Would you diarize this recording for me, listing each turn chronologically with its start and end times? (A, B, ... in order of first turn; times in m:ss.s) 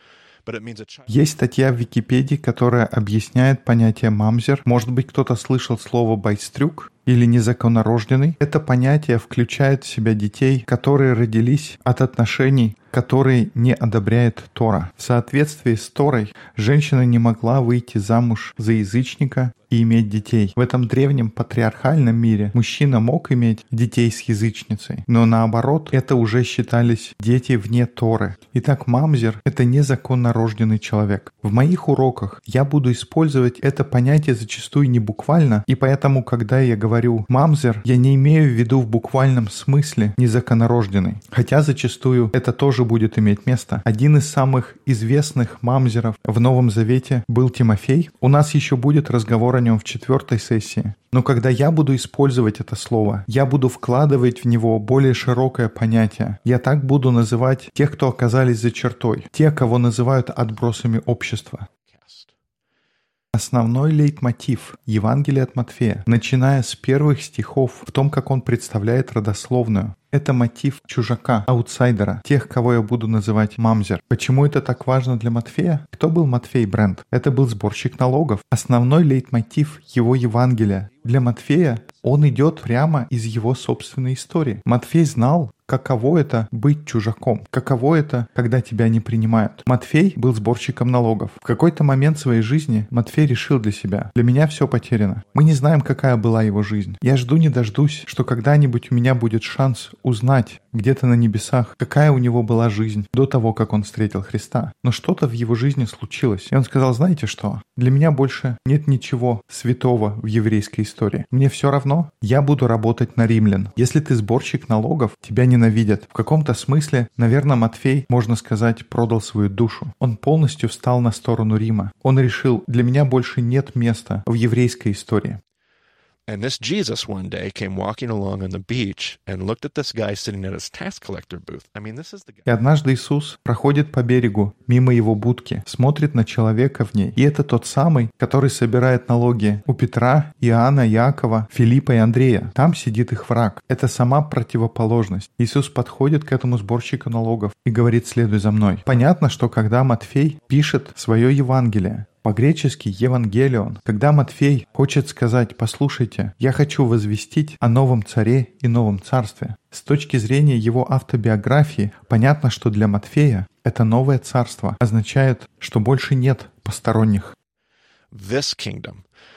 0:00.5-0:01.1 A
0:01.1-1:01.7 B
1:01.9-1:02.3 A
1:03.3-2:05.4 B
2:06.3-2:12.5 A
2:12.5-2:47.4 B
2:48.1-2:49.0 A